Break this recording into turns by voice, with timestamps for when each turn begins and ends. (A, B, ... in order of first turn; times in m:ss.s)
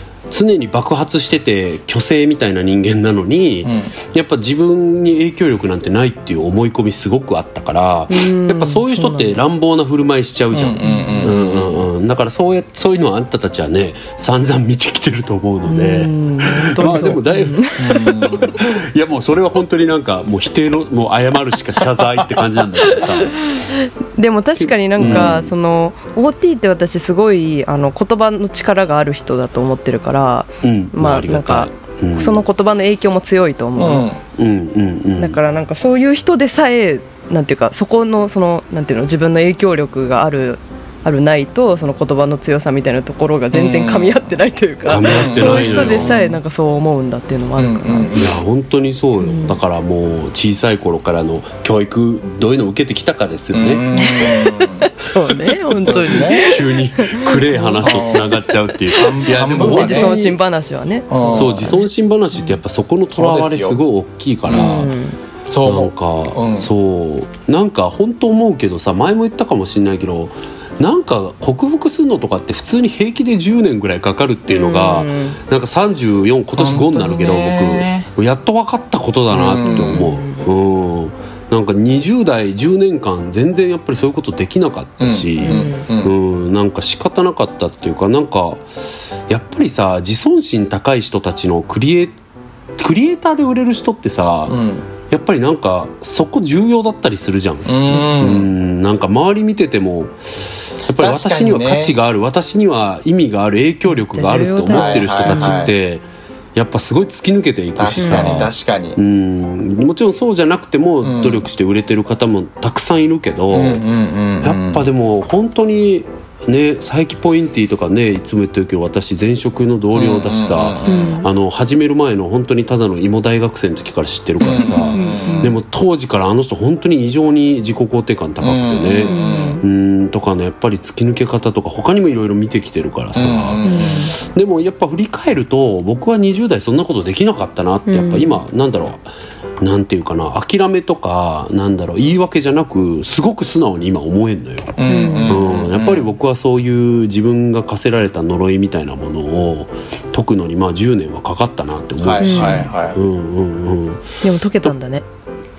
0:00.3-0:23.4 A
0:03.6-0:03.9 B
0:08.1-0:09.4 C
0:10.5-0:11.7 B
0:10.8-0:11.3 C
0:15.6-0:18.3 C
0:17.8-0:18.6 B
0:23.0-0:34.1 C
0:24.6-0:25.5 A
0:25.0-0:25.3 B
0:30.6-0:32.4 A
0:33.8-0:34.2 B
0:34.4-0:35.4 A
0:35.2-0:48.1 C
0:43.5-0:44.2 B
0:44.9-0:46.2 A
0:45.0-0:46.4 B
0:47.6-0:48.4 B
0:48.1-0:53.9 A
0:49.2-0:49.6 C
0:53.5-0:54.9 B
0:53.9-1:01.8 C
0:55.5-1:00.4 A
0:55.9-0:56.6 B
0:57.8-0:58.3 B
0:58.9-1:00.2 B
1:01.1-1:01.8 B
1:01.3-1:04.9 A
1:03.1-1:03.8 B
1:04.5-1:04.8 B
1:04.5-1:05.2 C
1:05.5-1:06.7 B
1:05.6-1:28.6 A
1:14.5-1:15.4 C
1:16.6-1:18.1 B
1:19.3-1:20.0 B
1:19.6-1:20.4 C
1:25.0-1:26.1 B
1:25.4-1:25.8 C
1:29.3-1:32.2 A
1:32.8-1:53.8 A
1:34.5-1:34.9 B
1:37.6-1:38.5 B
1:40.9-1:41.9 B
1:43.9-1:45.6 C
1:44.7-1:45.7 B
1:47.8-1:49.0 B
1:48.0-1:48.5 C
1:51.0-1:51.5 B
1:53.5-1:54.8 B
1:54.4-2:19.0 A
1:59.9-2:01.1 B
2:00.9-2:01.3 C
2:04.4-2:05.5 B
2:04.4-2:05.5 C
2:08.4-2:09.6 B
2:09.1-2:09.6 C
2:13.1-2:14.0 B
2:13.6-2:14.1 C
2:17.9-2:18.4 C
2:19.6-2:34.1 A
2:24.8-2:26.1 B
2:24.9-2:25.4 C
2:32.0-2:33.0 B
2:32.2-2:32.7 C
2:34.2-2:35.0 C